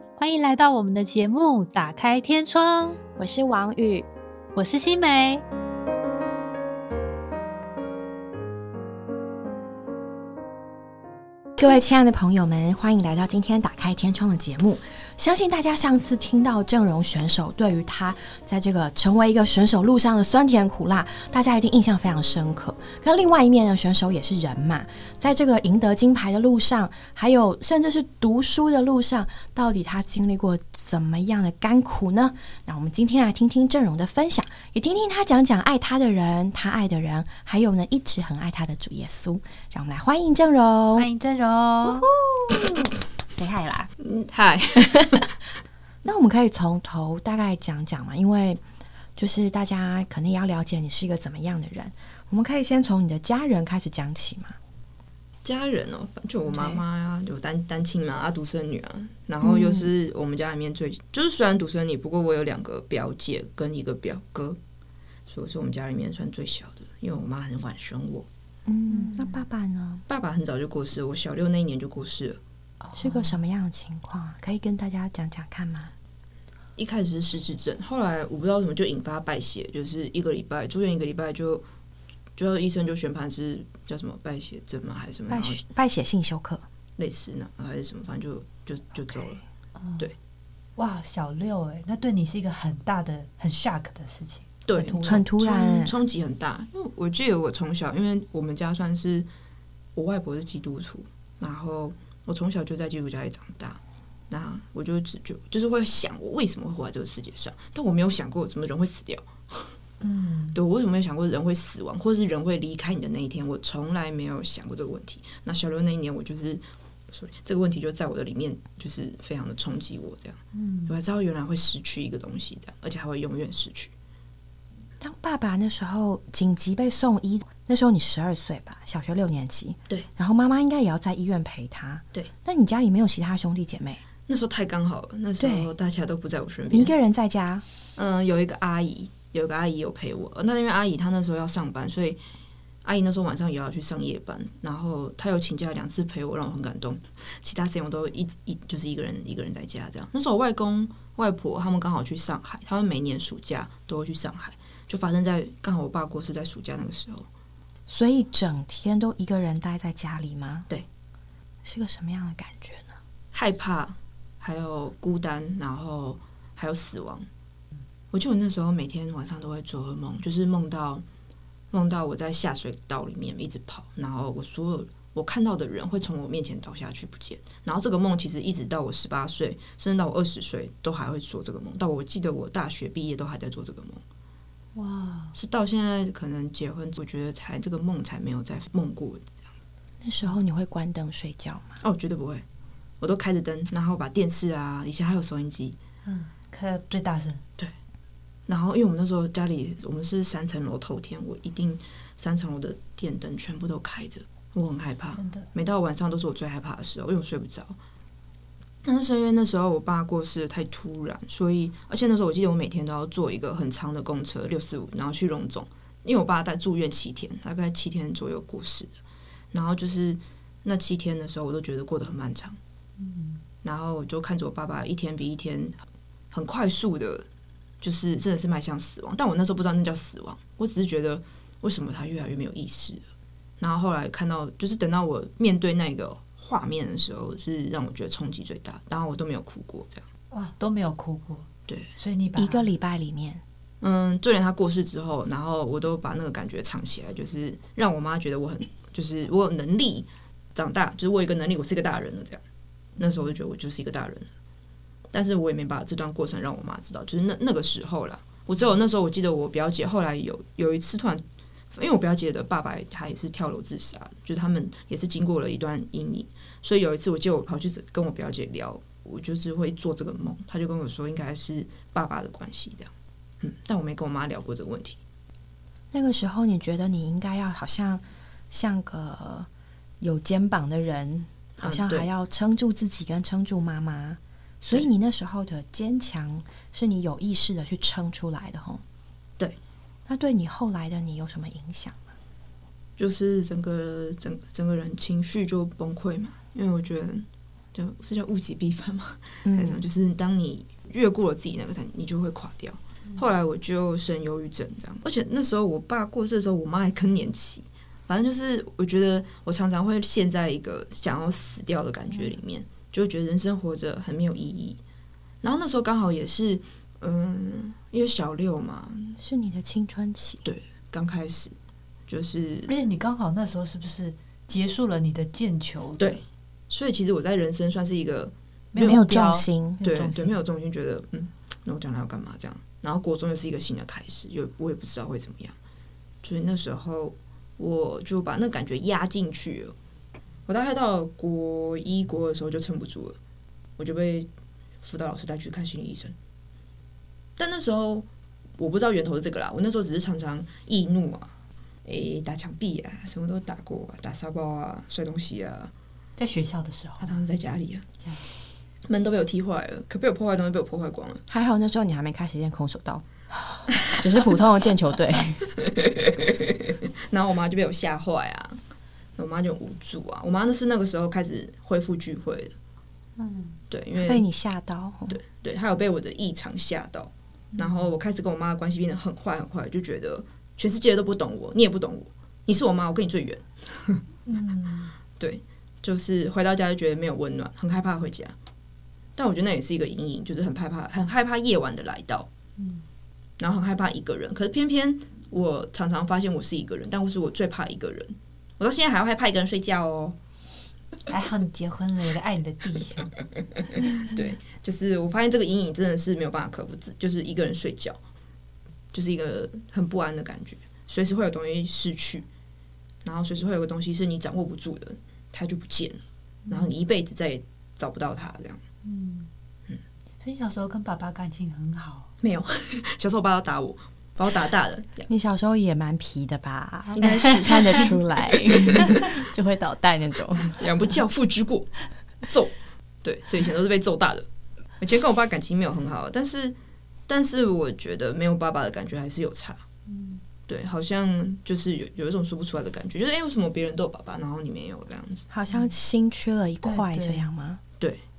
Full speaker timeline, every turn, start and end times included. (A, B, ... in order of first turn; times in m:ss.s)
0:00.2-0:03.0 A
0:03.2-0:04.1 B
0:04.6-0:05.4 A
0:11.6-0:41.1 B
0:41.0-0:42.1 A
0:41.8-0:43.9 B
0:44.0-0:45.3 C
0:44.8-0:45.3 B
0:46.0-0:48.6 B
0:49.2-0:54.6 B
0:55.4-1:04.6 C
0:56.5-0:56.8 B
0:59.4-0:59.9 B
1:05.3-1:08.3 C
1:08.7-1:10.0 B
1:08.9-1:09.4 A
1:10.1-1:12.4 C
1:12.8-1:13.4 A
1:13.0-1:15.9 B
1:16.8-1:21.6 C
1:22.4-1:25.6 C
1:25.3-1:26.6 B
1:27.0-1:29.4 C
1:29.8-1:30.1 A
1:30.8-1:35.3 A
1:34.7-1:39.3 C
1:35.0-1:36.0 B
1:40.0-1:49.8 C
1:50.0-1:50.6 A
1:50.5-2:03.9 C
2:00.5-2:01.0 A
2:05.0-2:14.0 B
2:14.3-2:16.9 C
2:15.4-2:15.7 B
2:16.7-2:17.6 B
2:18.0-2:22.2 C
2:22.8-2:37.3 C
2:37.9-2:40.7 B
2:41.6-2:43.0 B
2:43.3-2:47.3 C
2:48.1-2:51.0 C
2:51.7-3:04.0 C
3:04.8-3:05.4 A
3:05.4-3:09.3 C
3:10.0-3:11.7 B
3:11.8-3:12.4 C
3:13.0-3:15.8 C
3:16.0-3:17.4 A
3:18.5-3:27.8 C
3:25.2-3:25.5 A
3:28.8-3:38.9 C
3:39.5-3:42.6 C
3:43.0-3:43.4 A
3:43.6-3:45.8 C
3:46.3-3:47.3 C
3:47.8-3:53.0 C
3:53.6-4:00.1 C
4:00.3-4:02.7 A
4:01.7-4:01.9 C
4:02.4-4:03.4 B
4:03.8-4:12.4 C
4:13.0-4:14.3 C
4:15.1-4:35.0 C
4:35.9-4:39.5 B
4:40.0-4:48.8 B
4:41.6-4:42.1 C
4:50.1-4:52.1 B
4:53.0-5:14.8 C
4:59.4-4:59.8 B
5:15.4-5:19.2 C
5:19.2-5:20.4 B
5:20.4-5:21.6 C
5:22.1-5:22.7 C
5:22.7-5:26.2 A
5:26.0-5:29.0 C
5:28.7-5:30.4 A
5:28.8-5:29.8 B
5:29.8-5:35.6 C
5:36.2-5:39.8 C
5:40.5-5:43.2 C
5:43.8-5:44.3 C
5:44.8-5:46.2 C
5:47.4-5:51.3 C
5:51.8-5:55.7 C
5:56.2-5:57.2 A
5:57.0-5:57.9 C
5:58.9-6:01.2 C
6:01.3-6:03.0 B
6:03.8-6:05.5 B
6:05.6-6:08.6 C
6:09.2-6:12.6 C
6:13.2-6:13.6 A
6:13.7-6:14.2 C
6:14.0-6:15.2 B
6:15.1-6:24.0 C
6:17.5-6:17.9 A
6:24.3-6:24.9 A
6:25.2-6:28.4 C
6:29.2-6:32.3 C
6:32.6-6:32.8 A
6:33.4-6:40.2 C
6:41.1-6:43.1 A
6:43.7-6:48.0 C
6:48.9-6:52.3 C
6:53.0-6:58.6 C
6:56.5-6:56.7 A
6:58.8-6:59.3 A
7:00.2-7:02.1 A
7:02.2-7:05.1 C
7:05.1-7:10.6 B
7:07.0-7:07.9 A
7:07.5-7:08.8 C
7:10.6-7:14.3 C
7:14.8-7:16.6 C
7:17.1-7:19.6 C
7:19.9-7:20.2 A
7:20.5-7:25.3 C
7:25.3-7:27.6 B
7:25.5-7:25.8 A
7:26.6-7:27.3 A